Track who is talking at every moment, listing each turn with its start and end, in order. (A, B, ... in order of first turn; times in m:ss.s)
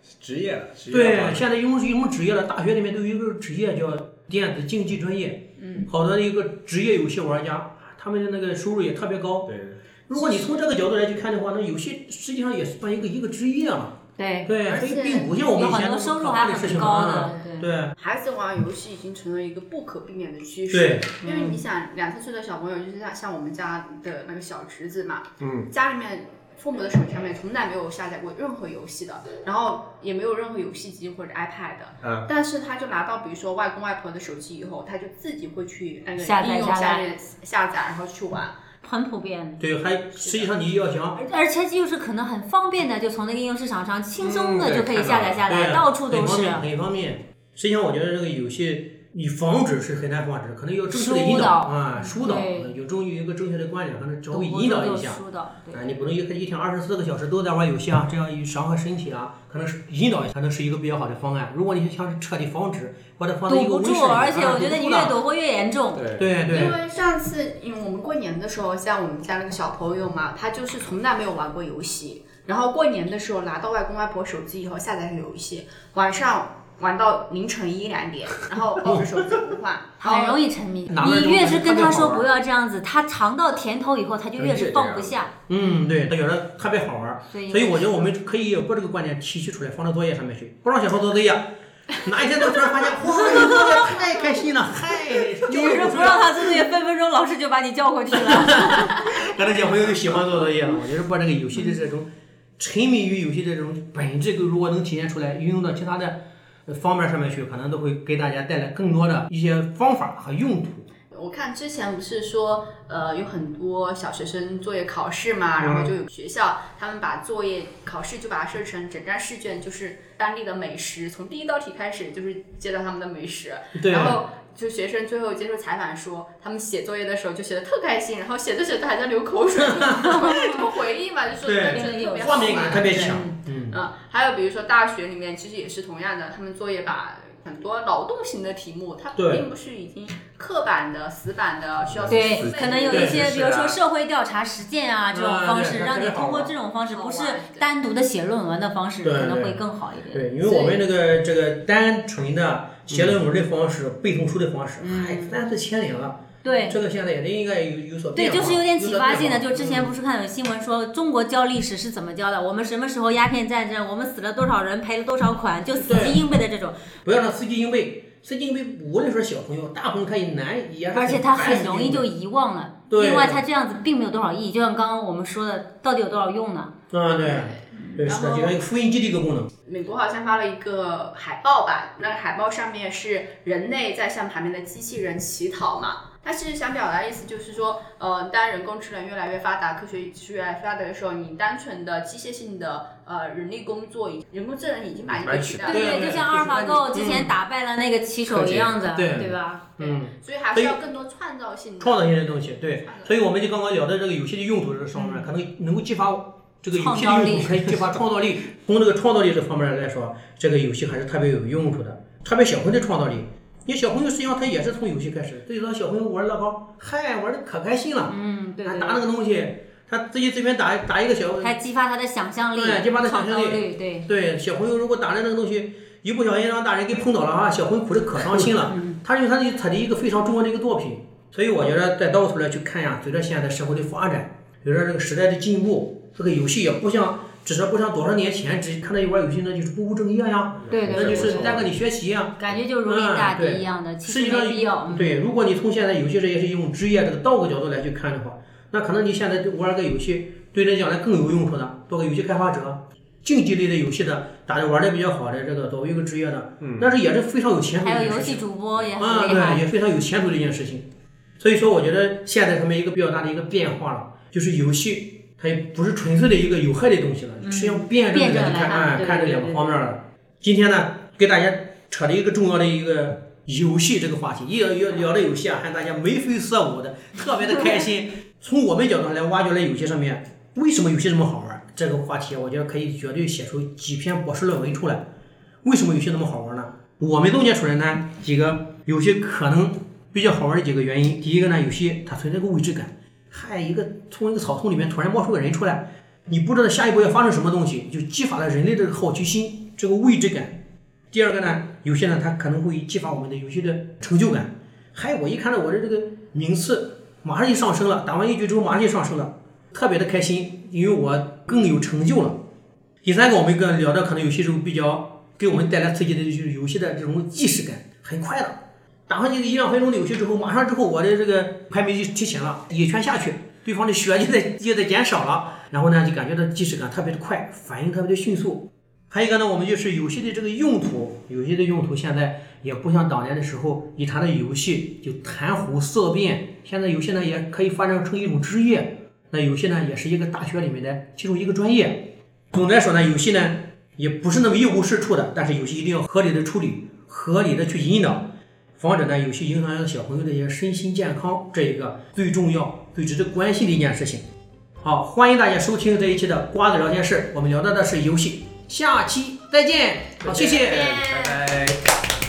0:00.1-0:01.4 A
0:00.9-0:09.5 B
0:05.6-0:05.9 C
0:09.4-0:09.8 A
0:10.1-0:17.9 B
0:14.2-0:14.5 D
0:14.6-0:15.8 C
0:15.1-0:17.7 D
0:18.0-0:38.6 C
0:20.7-0:21.1 B
0:21.2-0:21.6 D
0:25.4-0:25.7 A
0:36.2-0:37.1 D
0:38.8-0:39.6 D
0:39.6-0:41.2 B
0:41.1-0:46.6 D
0:44.2-0:45.4 A
0:45.4-1:05.2 B
0:50.9-0:52.7 D
0:54.3-0:55.9 D
1:03.5-1:06.0 D
1:05.9-1:06.3 A
1:06.2-1:06.8 B
1:06.5-1:20.4 C
1:20.0-1:25.3 D
1:20.9-1:22.3 B
1:24.4-1:25.2 A
1:25.5-1:36.6 B
1:27.3-1:28.1 D
1:35.4-1:39.0 D
1:38.2-1:50.9 B
1:51.1-2:23.1 C
2:03.7-2:04.2 B
2:09.6-2:09.9 B
2:10.1-2:10.5 D
2:11.4-2:13.8 B
2:11.7-2:13.4 D
2:19.2-2:19.4 B
2:21.8-2:23.8 A
2:22.1-2:30.2 D
2:22.9-2:23.3 B
2:25.1-2:26.5 B
2:26.9-2:27.7 C
2:29.0-2:39.9 B
2:30.4-2:30.8 C
2:32.9-2:33.2 A
2:34.8-2:35.4 D
2:36.4-2:36.8 D
2:36.4-2:36.7 C
2:38.1-2:46.8 D
2:45.8-2:46.2 B
2:47.0-2:52.0 B
2:50.9-2:56.7 D
2:52.9-2:53.4 B
2:56.9-2:59.5 B
2:57.2-2:58.6 C
2:57.8-2:58.0 D
2:59.6-3:16.0 C
3:15.2-3:15.8 A
3:15.6-3:19.6 D
3:15.6-3:17.3 B
3:18.3-3:18.7 A
3:18.9-3:20.8 B
3:19.8-3:22.2 C
3:21.8-3:41.5 B
3:22.8-3:23.1 C
3:24.9-3:25.2 D
3:26.7-3:27.6 D
3:38.1-3:39.0 D
3:41.4-3:44.1 D
3:42.5-4:18.4 B
3:48.2-3:49.0 D
4:00.6-4:01.7 A
4:00.7-4:01.5 D
4:02.4-4:05.2 D
4:16.6-4:16.9 A
4:17.8-4:19.6 D
4:19.0-4:20.8 B
4:21.4-4:45.1 B
4:27.4-4:29.8 D
4:45.6-5:00.6 B
5:01.1-5:12.4 B
5:13.0-5:54.2 B
5:54.8-6:00.9 B
6:00.2-6:01.8 A